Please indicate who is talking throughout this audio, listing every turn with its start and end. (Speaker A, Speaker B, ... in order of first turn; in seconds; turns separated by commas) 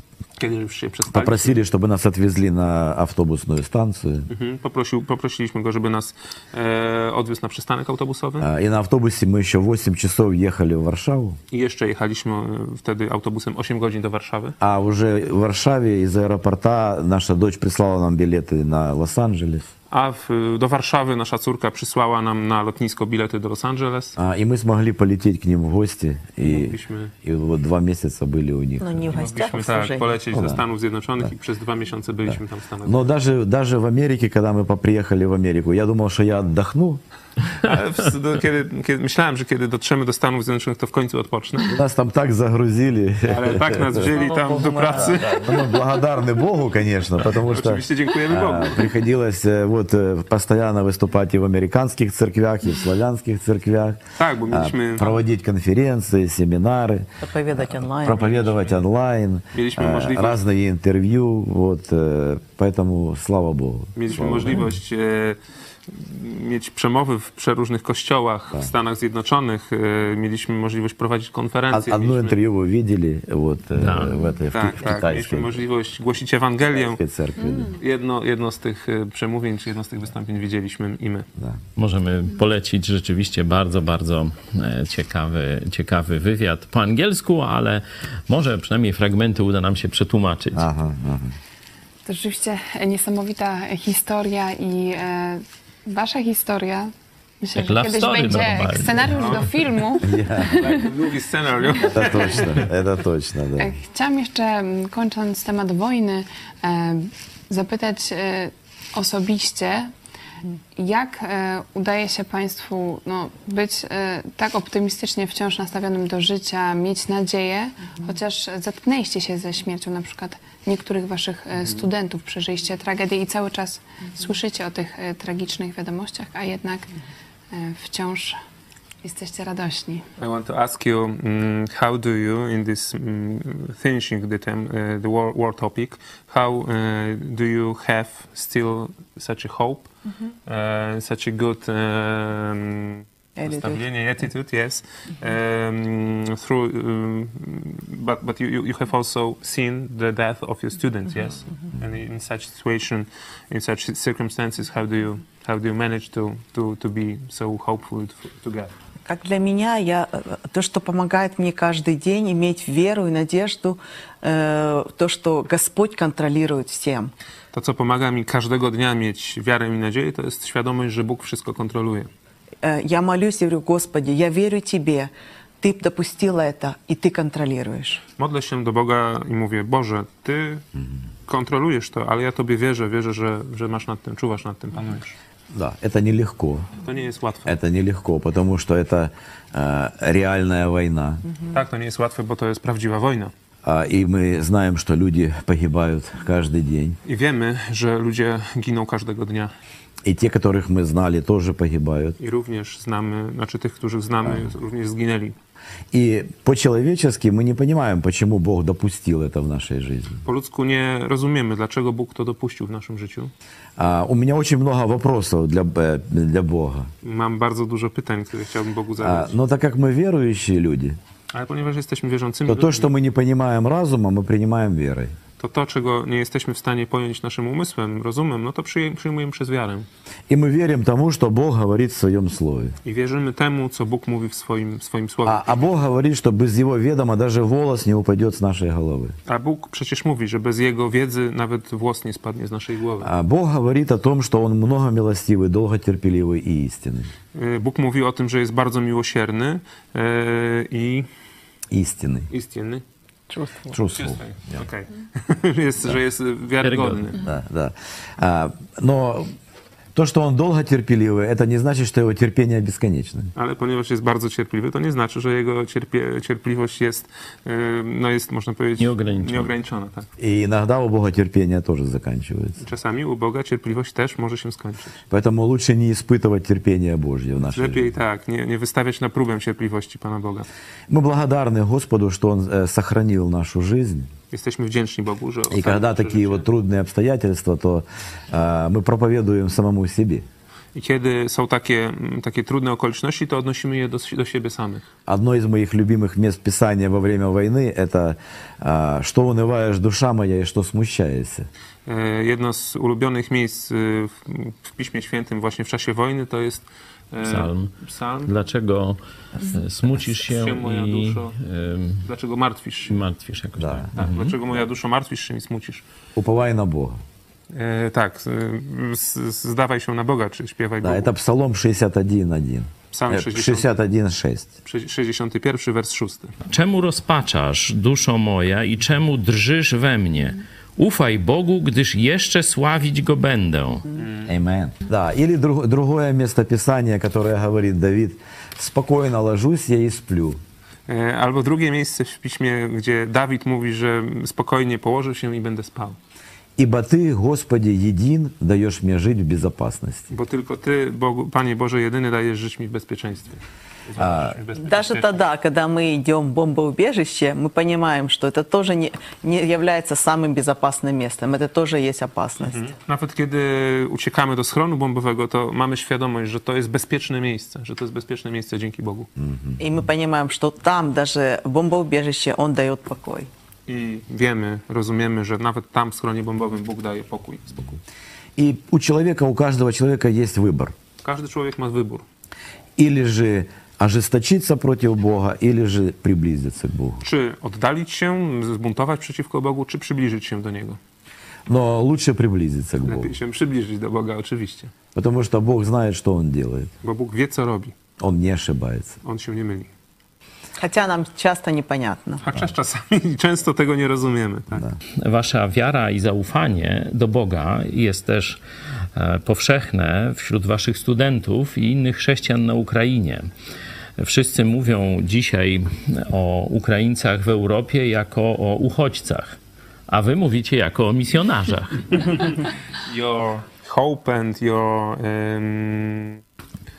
Speaker A: 0.4-1.6, Speaker B: 1.1-4.3, Speaker A: 4.3-8.5, Speaker B: 8.4-11.4, Speaker A: 11.5-14.5, Speaker B: 14.6-19.7, Speaker A: 19.9-24.1, Speaker B: 24.1-29.1, Speaker A: 26.4-27.1, Speaker C: 28.8-30.1, Speaker A: 29.1-33.1, Speaker B: 30.3-30.6, Speaker B: 32.8-37.0, Speaker A: 37.6-41.8, Speaker B: 41.7-44.1, Speaker A: 43.2-45.4, Speaker C: 44.1-45.2, Speaker B: 44.9-64.7, Speaker A: 47.4-48.9, Speaker A: 54.2-55.2, Speaker C: 57.2-58.3, Speaker A: 59.5-60.4, Speaker A: 64.0-72.4, Speaker B: 71.7-75.6, Speaker D: 73.7-74.2, Speaker A: 74.5-77.0, Speaker B: 76.7-77.7, Speaker A: 77.8-81.2, Speaker D: 81.8-90.7, Speaker B: 90.5-91.3, Speaker E: 92.0-100.6, Speaker D: 97.5-99.5, Speaker A: 99.1-99.5, Speaker B: 100.0-100.7, Speaker A: 100.5-102.6, Speaker B: 101.9-103.7, Speaker E: 103.6-109.9, Speaker E: 110.8-126.9, Speaker E: 127.5-128.4, Speaker E: 129.0-130.0, Speaker A: 130.2-139.9, Speaker A: 140.4-158.7, Speaker C: 143.4-143.8, Speaker C: 159.1-167.1, Speaker A: 167.5-172.1, Speaker C: 172.6-178.0, Speaker A: 178.2-180.6, Speaker A: 181.3-185.2, Speaker B: 185.5-186.7, Speaker A: 186.8-187.6, Speaker B: 187.4-191.2, Speaker A: 191.5-193.3, Speaker B: 193.6-197.0, Speaker A: 197.0-199.5, Speaker B: 200.0-202.2, Speaker A: 202.2-205.3, Speaker B: 205.9-210.2, Speaker A: 210.2-213.3, Speaker B: 213.8-216.9, Speaker A: 217.0-219.3, Speaker B: 219.0-221.0, Speaker A: 221.3-222.9, Speaker B: 222.5-225.1, Speaker A: 225.4-229.8, Speaker B: 230.3-232.8, Speaker A: 232.8-235.6, Speaker B: 235.2-239.2, Speaker A: 239.3-243.1, Speaker B: 243.0-247.1, Speaker A: 247.3-251.1, Speaker B: 251.7-252.3, Speaker A: 252.3-252.8, Speaker C: 253.3-253.7, Speaker B: 253.7-254.6, Speaker A: 253.9-257.2, Speaker D: 256.6-257.1, Speaker B: 257.2-259.3, Speaker B: 259.9-263.3, Speaker A: 263.4-270.1, Speaker D: 268.8-269.5, Speaker B: 270.2-272.6, Speaker A: 272.6-275.0, Speaker B: 275.1-277.9, Speaker A: 277.5-280.5, Speaker B: 280.9-284.1, Speaker A: 284.3-286.4, Speaker B: 285.5-290.2, Speaker A: 290.7-294.9, Speaker B: 295.1-301.5, Speaker A: 301.9-308.3, Speaker D: 307.2-307.7, Speaker D: 308.2-312.1, Speaker A: 310.0-311.3, Speaker A: 312.0-313.0, Speaker D: 312.9-314.4, Speaker B: 313.6-313.9, Speaker A: 313.9-315.8, Speaker B: 316.1-317.0, Speaker A: 317.5-321.1, Speaker B: 320.8-324.5, Speaker A: 322.9-323.7, Speaker A: 324.6-326.3, Speaker D: 326.5-333.8, Speaker A: 333.9-334.3, Speaker B: 334.2-340.4, Speaker A: 340.9-346.0, Speaker B: 346.6-350.1, Speaker A: 350.1-355.2, Speaker B: 353.9-354.4, Speaker C: 354.6-362.6, Speaker A: 362.4-369.1, Speaker B: 369.2-369.6, Speaker C: 369.6-373.3, Speaker A: 373.7-377.8, Speaker B: 378.4-380.7, Speaker A: 381.0-382.0, Speaker B: 382.8-387.0, Speaker A: 387.0-390.8, Speaker B: 391.5-393.1, Speaker A: 392.8-394.7, Speaker B: 394.9-396.7, Speaker A: 396.8-397.7, Speaker B: 398.0-399.0, Speaker A: 399.0-399.7, Speaker C: 400.6-402.2, Speaker A: 402.2-404.6, Speaker D: 405.0-408.4, Speaker D: 408.9-413.3, Speaker D: 414.0-419.4, Speaker D: 419.9-422.3, Speaker A: 422.0-426.2